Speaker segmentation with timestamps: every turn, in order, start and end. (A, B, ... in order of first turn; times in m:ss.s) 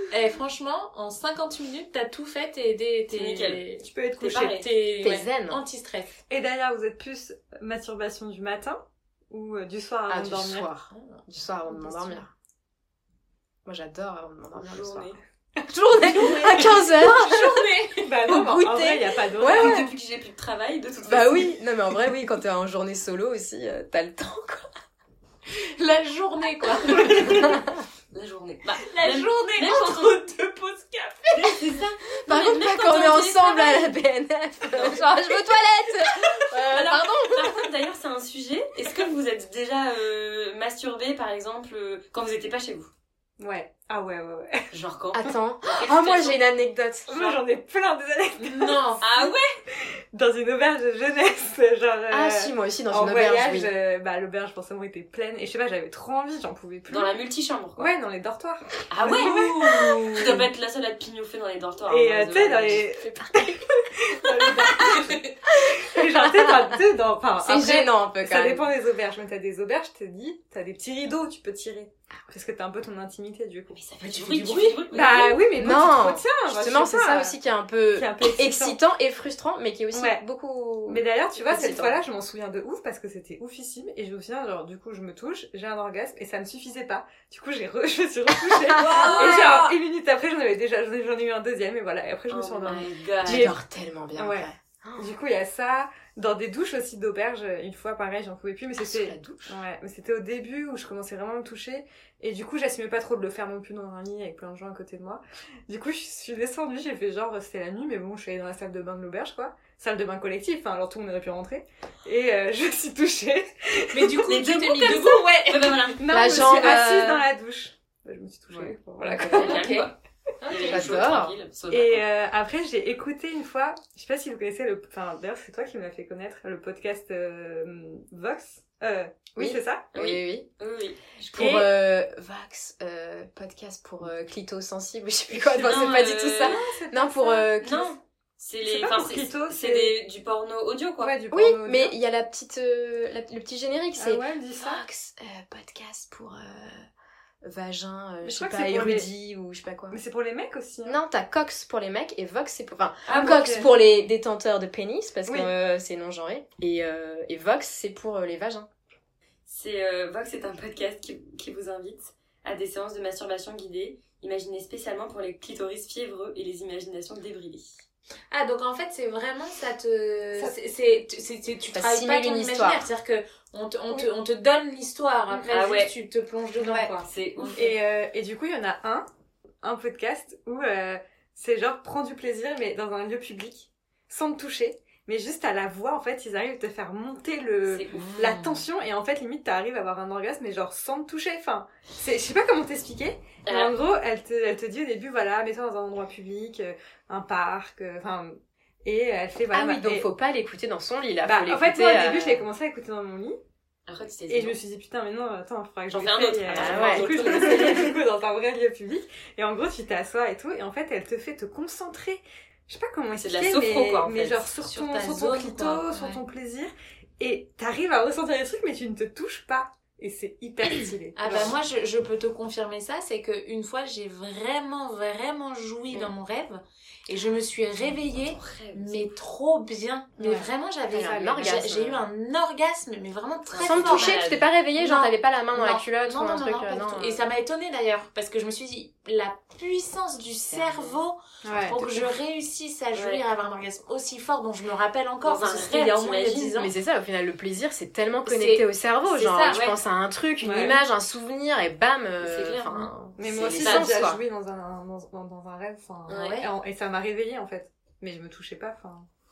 0:00.1-0:03.9 A
0:03.1-0:03.6 B
0:03.8-0:04.7 C
0:04.2-0:04.7 B
0:04.4-0:06.2 A
0:05.0-0:05.6 D
0:06.3-0:10.7 C
0:10.1-0:12.3 D
0:13.6-0:15.1 D
0:14.6-0:15.2 B
0:15.7-0:18.2 A
0:15.9-0:17.7 D
0:16.1-0:16.4 C
0:18.0-0:19.9 C
0:18.2-0:19.9 D
0:19.4-0:21.5 B
0:21.0-0:24.7 D
0:25.5-0:27.6 A
0:27.0-0:27.6 B
0:27.2-0:27.6 D
0:28.1-0:30.2 B
0:28.8-0:31.7 A
0:31.4-0:33.9 B
0:32.2-0:37.6 D
0:34.8-0:35.0 B
0:36.7-0:42.9 B
0:43.4-0:44.7 C
0:44.7-0:46.4 B
0:45.1-0:47.2 D
0:47.1-0:57.2 C
0:48.4-0:49.0 A
0:49.0-0:49.5 B
0:52.1-0:53.7 D
0:56.9-0:57.9 B
0:57.8-1:00.5 C
0:58.9-1:02.8 B
1:01.9-1:17.4 C
1:02.9-1:03.7 D
1:05.5-1:06.7 D
1:07.4-1:08.7 D
1:13.7-1:15.5 B
1:14.3-1:14.8 A
1:15.5-1:22.0 D
1:17.9-1:18.8 C
1:19.9-1:20.2 C
1:20.9-1:33.6 C
1:28.7-1:29.6 D
1:28.9-1:29.6 B
1:32.3-1:33.5 B
1:33.2-1:35.1 D
1:34.2-1:54.4 C
1:38.8-1:39.6 D
1:53.9-1:55.9 A
1:54.3-1:56.0 B
1:55.9-1:59.6 C
1:56.1-1:57.2 D
1:59.2-1:59.5 D
1:59.2-1:59.9 B
1:59.3-1:59.9 A
2:00.4-2:00.9 A
2:00.4-2:02.0 B
2:00.7-2:01.4 D
2:01.7-2:09.8 C
2:09.4-2:10.5 D
2:09.9-2:11.6 B
2:11.3-2:17.9 D
2:11.4-2:11.7 C
2:15.4-2:17.5 C
2:15.6-2:16.6 B
2:17.6-2:21.1 B
2:18.6-2:20.0 C
2:21.0-2:21.9 C
2:21.3-2:26.8 D
2:24.0-2:24.8 C
2:27.4-2:30.0 D
2:28.2-2:29.1 C
2:29.9-2:31.0 C
2:30.8-2:38.7 D
2:33.1-2:33.6 B
2:33.1-2:33.7 C
2:39.4-2:47.8 B
2:48.3-2:57.7 A
2:51.7-2:52.9 D
2:55.5-2:55.9 B
2:56.8-2:57.7 B
2:57.5-2:59.1 C
2:59.6-3:20.1 C
3:07.6-3:08.1 B
3:08.0-3:08.5 D
3:13.4-3:13.7 B
3:19.5-3:22.4 D
3:21.2-3:23.4 C
3:23.9-3:24.6 B
3:24.3-3:41.5 C
3:25.9-3:28.0 B
3:26.5-3:27.4 D
3:33.1-3:34.9 B
3:34.9-3:36.2 A
3:41.2-3:54.2 A
3:48.1-3:49.1 B
3:50.2-3:51.6 C
3:50.9-3:52.0 D
3:53.5-3:54.4 B
3:53.6-3:57.2 D
3:54.8-4:06.7 A
4:00.5-4:01.0 D
4:01.4-4:02.0 C
4:02.9-4:03.2 B
4:05.2-4:06.6 B
4:06.5-4:14.2 D
4:08.2-4:09.6 A
4:09.4-4:09.8 B
4:10.4-4:10.8 C
4:12.2-4:12.9 B
4:13.2-4:19.1 C
4:13.5-4:14.0 B
4:16.1-4:16.5 B